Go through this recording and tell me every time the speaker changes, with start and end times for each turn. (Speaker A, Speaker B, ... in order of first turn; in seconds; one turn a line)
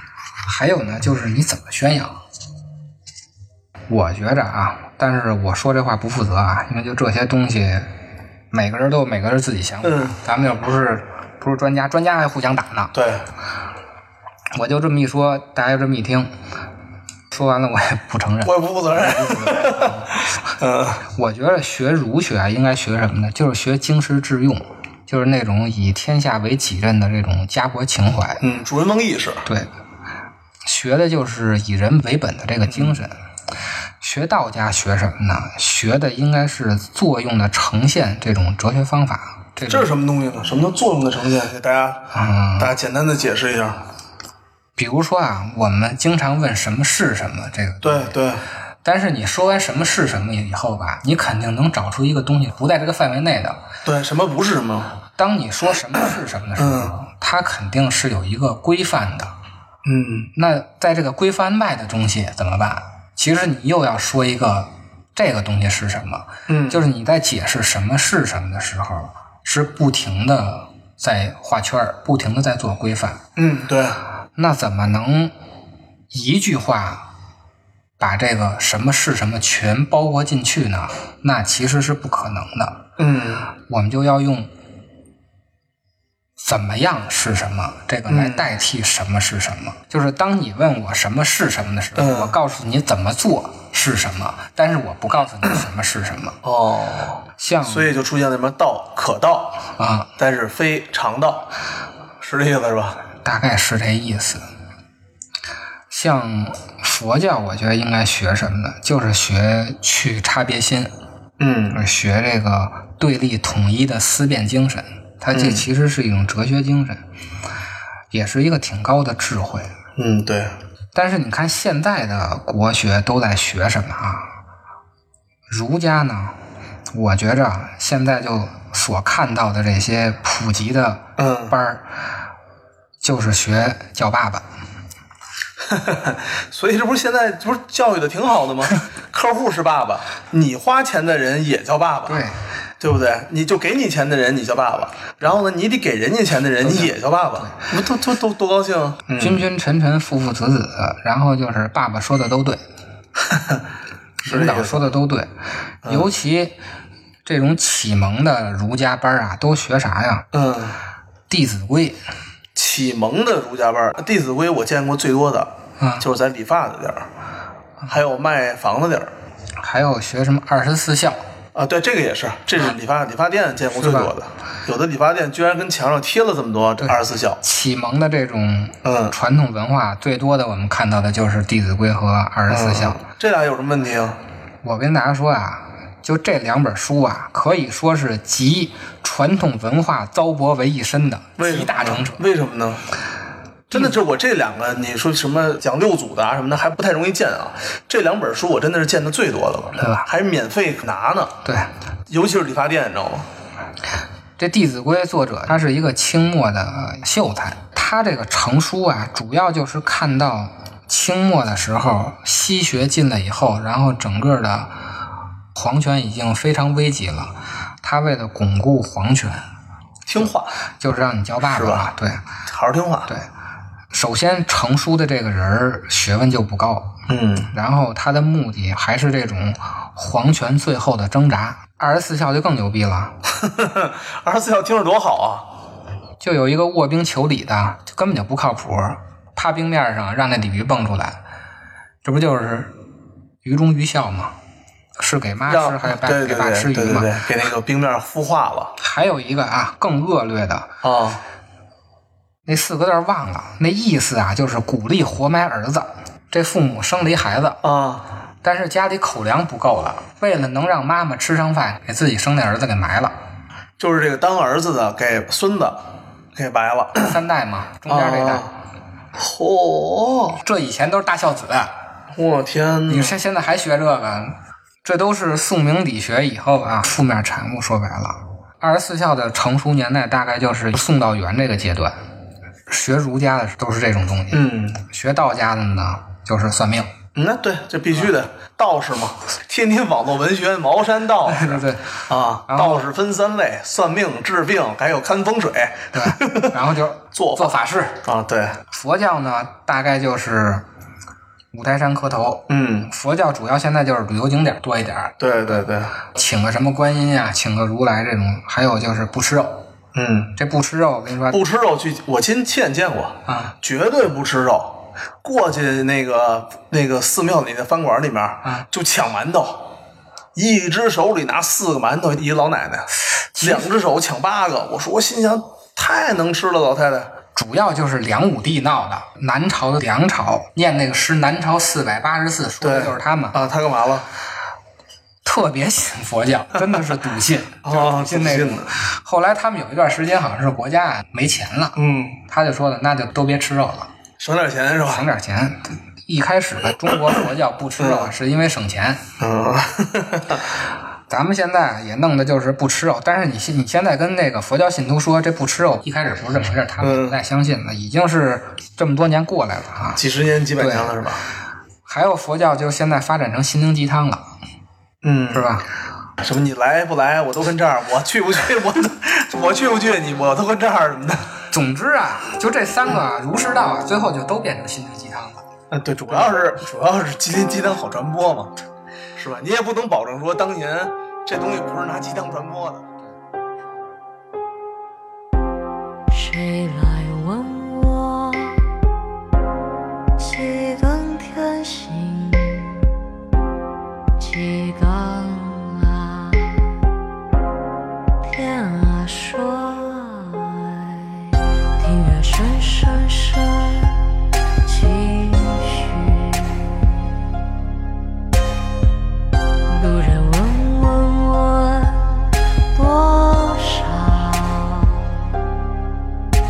Speaker A: 0.5-2.2
Speaker A: 3.9-7.9
Speaker A: 8.5-12.9
Speaker B: 9.8-10.2
Speaker B: 12.9-13.3
Speaker A: 14.5-16.3
Speaker A: 17.3-20.2
Speaker B: 18.4-21.0
Speaker A: 21.1-28.4
Speaker B: 28.4-29.5
Speaker A: 29.4-29.7
Speaker A: 30.6-33.2
Speaker B: 32.7-33.0
Speaker A: 34.0-39.9
Speaker B: 39.7-43.8
Speaker A: 42.1-42.7
Speaker A: 44.8-48.1
Speaker B: 47.8-48.4
Speaker A: 48.8-53.6
Speaker B: 53.9-55.0
Speaker A: 55.2-59.4
Speaker B: 56.6-57.0
Speaker B: 59.9-60.3
Speaker A: 60.4-73.2
Speaker B: 66.5-66.8
Speaker B: 73.4-74.0
Speaker A: 74.3-75.3
Speaker A: 76.1-77.1
Speaker A: 78.0-82.9
Speaker B: 83.0-83.5
Speaker A: 83.6-84.5
Speaker A: 86.4-96.4
Speaker B: 88.1-88.5
Speaker B: 92.0-92.4
Speaker B: 96.4-99.6
Speaker A: 97.4-97.9
Speaker A: 99.8-100.1
Speaker B: 100.2-101.5
Speaker B: 102.2-103.0
Speaker A: 103.2-104.4
Speaker A: 105.9-110.9
Speaker B: 111.4-111.8
Speaker A: 111.7-117.0
Speaker B: 115.3-115.7
Speaker A: 118.1-119.7
Speaker B: 120.0-120.5
Speaker A: 120.9-124.4
Speaker A: 125.5-126.4
Speaker A: 126.9-131.9
Speaker B: 131.2-131.6
Speaker A: 133.0-134.5
Speaker B: 135.6-142.3
Speaker A: 142.1-142.4
Speaker B: 142.8-149.5
Speaker A: 146.6-147.6
Speaker A: 149.2-152.6
Speaker B: 153.3-153.6
Speaker A: 154.2-155.3
Speaker B: 154.2-154.9
Speaker A: 155.8-156.6
Speaker A: 157.2-160.3
Speaker B: 160.3-160.8
Speaker A: 161.3-162.0
Speaker B: 162.6-167.1
Speaker A: 165.8-166.1
Speaker B: 167.9-169.1
Speaker A: 169.6-171.2
Speaker B: 171.6-177.4
Speaker A: 173.7-174.1
Speaker A: 176.8-183.0
Speaker B: 178.8-179.2
Speaker B: 182.5-184.2
Speaker A: 184.6-192.2
Speaker B: 191.4-192.9
Speaker B: 193.7-201.4
Speaker A: 193.7-194.0
Speaker A: 199.8-200.1
Speaker A: 201.4-201.7
Speaker B: 202.1-203.3
Speaker A: 204.4-215.0
Speaker A: 215.5-219.5
Speaker B: 220.1-220.6
Speaker A: 220.8-222.3
Speaker B: 221.4-221.9
Speaker B: 222.5-223.1
Speaker A: 223.9-227.0
Speaker B: 227.1-227.5
Speaker A: 227.5-233.2
Speaker B: 233.3-235.5
Speaker A: 236.2-241.2
Speaker A: 242.0-242.8
Speaker A: 243.4-244.4
Speaker A: 245.0-247.2
Speaker B: 245.5-248.8
Speaker A: 248.8-250.8
Speaker B: 250.8-251.2
Speaker A: 252.5-257.6
Speaker B: 257.6-258.0
Speaker A: 258.4-263.2
Speaker B: 263.8-267.1
Speaker A: 266.9-268.5
Speaker B: 267.9-268.5
Speaker B: 269.1-270.4
Speaker A: 270.4-271.8
Speaker B: 272.1-273.2
Speaker A: 272.9-282.0
Speaker A: 282.7-286.9
Speaker B: 284.3-284.8
Speaker B: 287.1-296.6
Speaker A: 291.3-292.9
Speaker A: 295.9-298.0
Speaker B: 297.1-298.6
Speaker A: 298.7-300.7
Speaker A: 301.5-309.7
Speaker B: 302.5-302.9
Speaker B: 305.2-306.0
Speaker B: 309.9-310.4
Speaker A: 310.4-311.4
Speaker B: 311.3-319.7
Speaker A: 313.3-313.5
Speaker B: 320.4-327.1
Speaker A: 323.4-323.7
Speaker A: 327.4-333.4
Speaker B: 332.6-334.1
Speaker A: 335.2-343.9
Speaker B: 337.6-338.7
Speaker B: 341.8-342.2
Speaker B: 344.2-345.1
Speaker A: 344.9-349.0
Speaker B: 347.8-348.1
Speaker B: 349.2-350.4
Speaker A: 351.1-360.0
Speaker B: 356.8-357.2
Speaker B: 360.0-361.2
Speaker A: 360.6-361.0
Speaker A: 361.9-364.3
Speaker B: 365.0-365.6
Speaker A: 365.3-365.6
Speaker B: 366.2-371.3
Speaker A: 371.5-375.4
Speaker B: 375.7-378.5
Speaker B: 379.2-382.9
Speaker C: 386.1-388.7
Speaker C: 390.2-393.0
Speaker C: 394.2-396.8
Speaker C: 398.2-404.1
Speaker C: 404.6-407.1
Speaker C: 409.7-415.3